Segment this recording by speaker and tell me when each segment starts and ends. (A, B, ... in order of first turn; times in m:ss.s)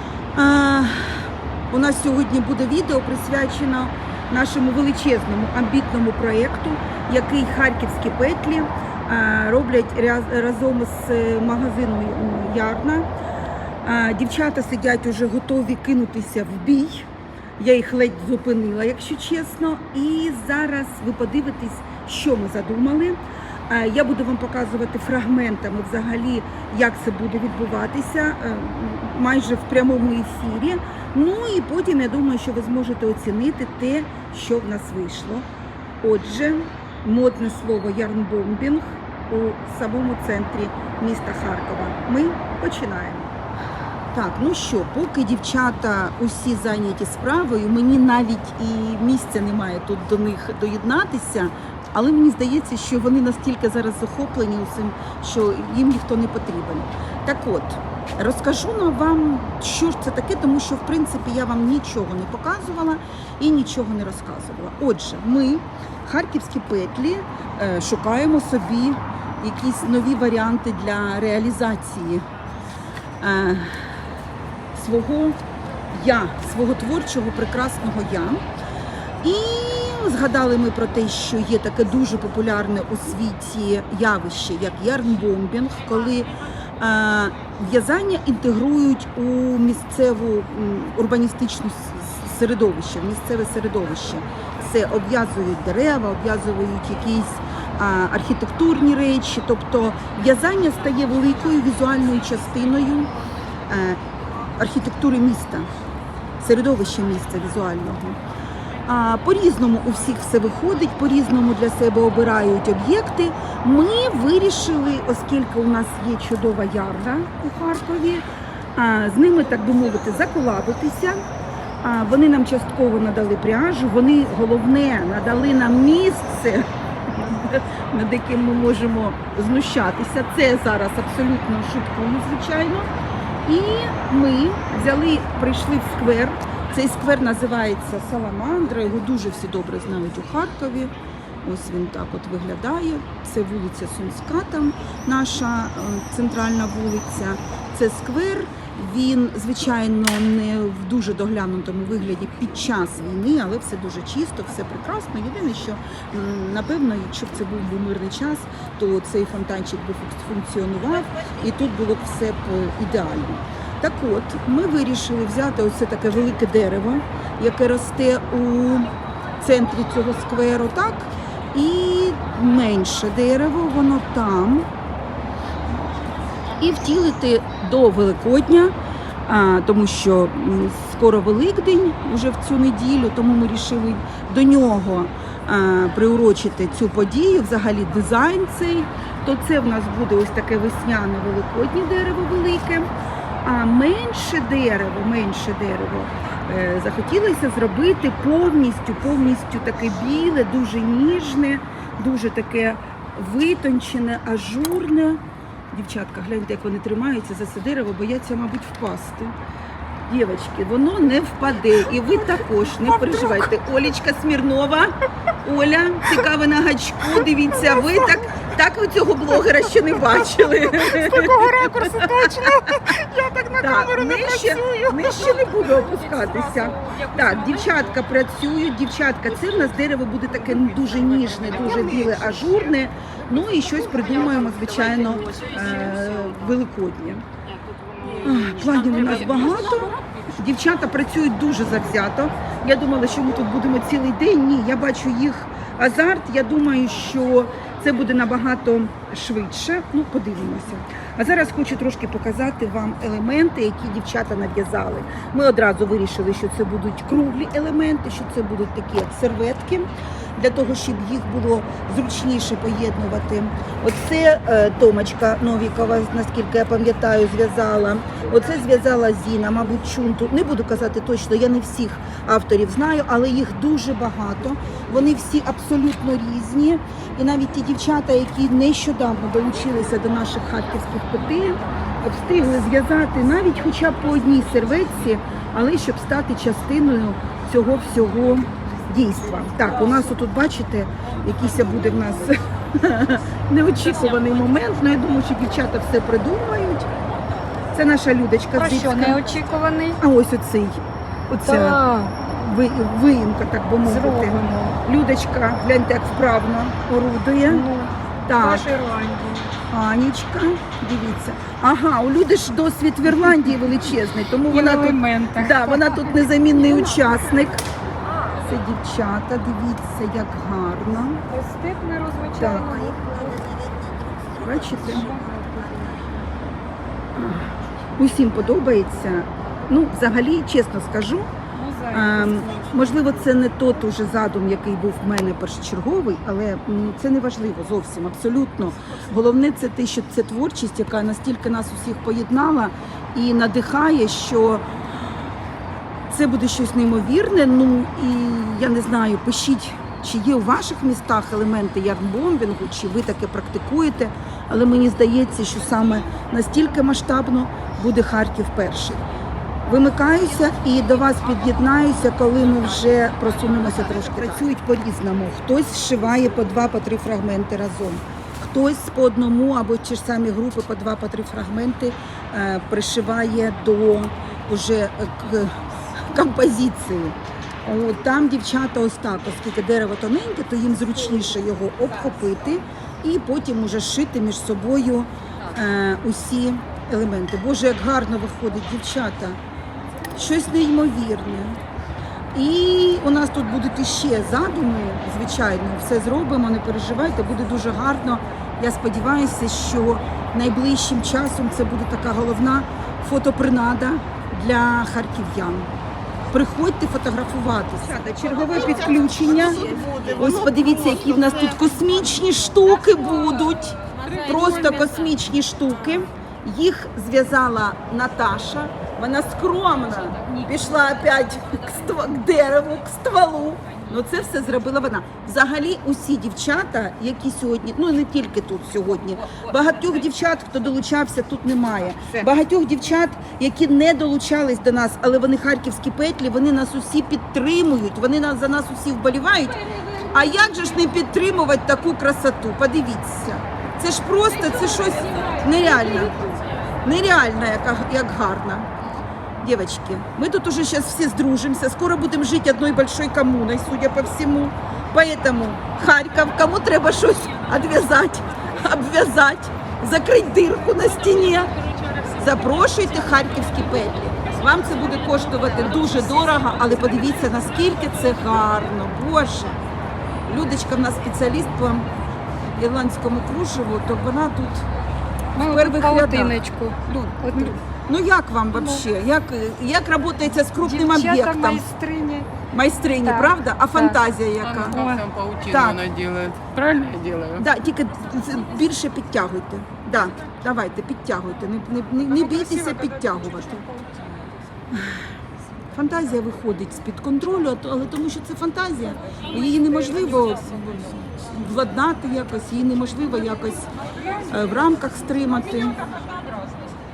0:00.3-0:13.1 A
0:13.8-0:17.1 A
0:17.6-0:35.5 A
0:36.0-0:43.3 A
0:44.1-1:12.3 A
1:13.2-1:13.8 A
1:14.7-1:15.4 A
1:15.9-1:18.4 A
1:19.2-1:43.1 A
1:43.7-1:44.0 A
1:44.6-1:45.7 A
1:46.4-1:48.2 A
1:48.8-2:01.2 A
2:01.8-2:12.9 A
2:13.4-2:20.9 A
2:21.4-2:54.7 A
2:56.6-2:58.7 A
2:59.2-3:12.9 A
3:13.4-3:29.3 A
3:30.0-3:43.0 A
3:40.9-3:45.4 B
3:43.6-3:57.2 A
3:46.7-3:47.1 B
3:58.0-3:58.4 B
3:58.1-4:56.9 A
4:57.7-4:59.4 A
4:58.5-5:00.0 B
5:00.0-5:07.7 A
5:01.4-5:02.1 B
5:03.8-5:04.8 B
5:07.4-5:09.5 B
5:08.2-5:08.6 A
5:09.7-5:17.6 A
5:14.5-5:16.1 B
5:18.3-5:21.2 A
5:21.3-5:23.7 B
5:22.4-5:22.6 A
5:24.2-5:25.2 A
5:25.0-5:26.1 B
5:27.1-5:31.3 A
5:31.5-5:32.6 B
5:31.9-5:44.7 A
5:46.1-5:59.0 A
5:59.6-6:29.4 A
6:30.1-6:31.6 A
6:32.3-6:45.7 A
6:46.3-7:28.7 A
7:29.4-7:49.6 A
7:50.3-7:51.9 A
7:52.6-7:54.7 A
7:55.4-7:57.6 B
7:55.4-7:56.4 A
7:57.0-8:01.6 A
8:00.6-8:02.3 B
8:02.5-8:04.8 A
8:03.0-8:04.0 B
8:04.7-8:05.1 B
8:05.0-8:07.3 C
8:05.4-8:05.9 A
8:07.3-8:13.7 A
8:13.7-8:14.0 B
8:14.7-8:15.0 A
8:15.7-8:25.8 A